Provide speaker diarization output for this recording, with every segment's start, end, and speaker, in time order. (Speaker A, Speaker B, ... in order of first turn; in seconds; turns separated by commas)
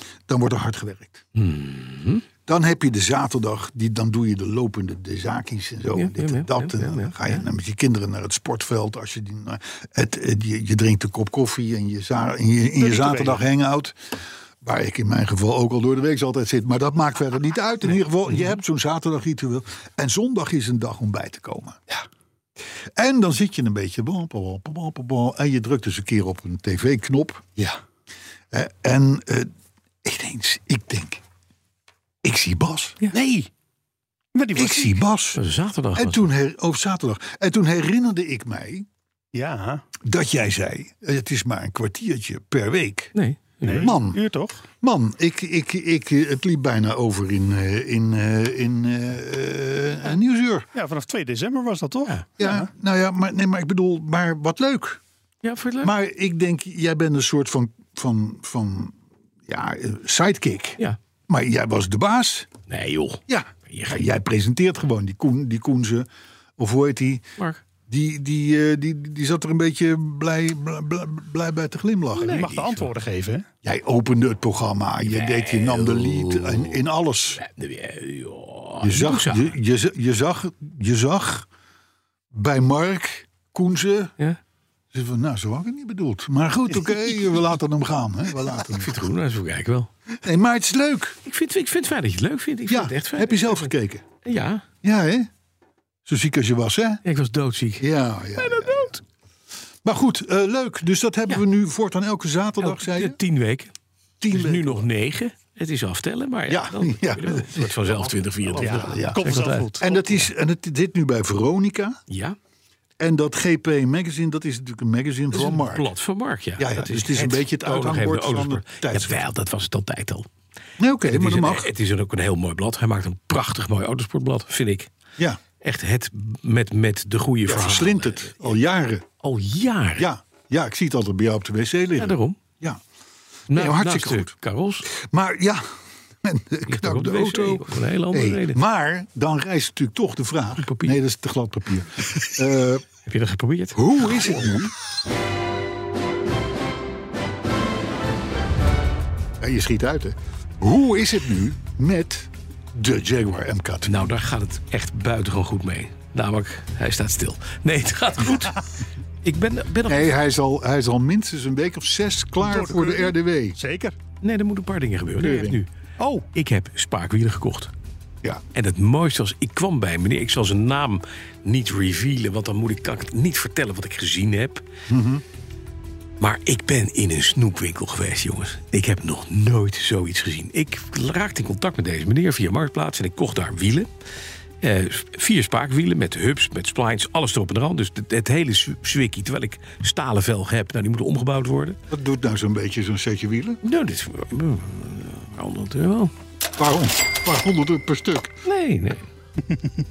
Speaker A: 0.3-1.2, Speaker B: 1.3-2.2, Speaker A: 2.5-21.8, Speaker B: 5.9-7.4, Speaker C: 12.8-13.4, Speaker A: 22.9-27.6, Speaker A: 28.5-29.5, Speaker A: 30.0-31.2, Speaker A: 32.2-33.1, Speaker C: 33.1-33.5, Speaker C: 34.3-35.0, Speaker A: 34.5-35.4, Speaker B: 35.3-36.3, Speaker A: 35.9-38.9, Speaker C: 39.3-39.8, Speaker A: 40.0-43.1, Speaker B: 43.1-44.0, Speaker C: 43.6-44.6, Speaker A: 43.8-44.2, Speaker A: 44.8-50.7, Speaker C: 50.7-52.7, Speaker A: 52.4-55.0, Speaker B: 55.4-55.9, Speaker A: 55.8-59.0, Speaker A: 59.5-62.5, Speaker B: 62.7-64.0, Speaker A: 63.3-67.2, Speaker A: 67.9-72.5, Speaker B: 72.1-72.9, Speaker C: 72.2-73.5, Speaker A: 73.6-77.4, Speaker B: 75.0-79.5, Speaker A: 78.8-81.5, Speaker A: 82.3-84.1, Speaker A: 84.9-89.0, Speaker B: 88.7-89.9, Speaker A: 90.2-91.2, Speaker B: 91.2-93.7, Speaker A: 92.7-94.0, Speaker B: 94.2-94.6, Speaker A: 94.8-95.3, Speaker A: 96.0-97.0, Speaker B: 97.0-99.0, Speaker A: 97.8-99.0, Speaker A: 99.8-103.2, Speaker B: 102.6-103.7, Speaker A: 104.2-104.8, Speaker B: 104.3-110.2, Speaker A: 106.5-112.0, Speaker C: 108.6-109.9, Speaker B: 112.1-112.4, Speaker A: 113.0-115.9, Speaker B: 115.3-120.3, Speaker A: 116.6-119.2, Speaker A: 120.8-121.7, Speaker B: 121.1-124.9, Speaker B: 125.6-128.6, Speaker A: 127.5-129.1, Speaker B: 129.2-130.1, Speaker A: 130.0-132.8, Speaker B: 131.9-132.4, Speaker B: 133.5-134.9, Speaker A: 133.5-134.3, Speaker A: 134.9-142.8, Speaker B: 136.7-138.6, Speaker B: 140.6-141.0, Speaker B: 143.1-144.5, Speaker A: 143.7-144.7, Speaker A: 149.4-154.1, Speaker B: 153.8-158.6, Speaker B: 159.2-160.1, Speaker A: 159.9-163.6, Speaker C: 162.4-164.0, Speaker B: 164.2-165.7, Speaker A: 165.2-165.6, Speaker C: 166.0-166.2, Speaker B: 166.3-167.7, Speaker B: 168.5-174.6, Speaker A: 174.9-175.2, Speaker B: 176.2-183.9, Speaker B: 184.6-191.8, Speaker A: 191.9-193.6, Speaker B: 193.6-196.1, Speaker A: 196.6-198.3, Speaker B: 198.4-199.1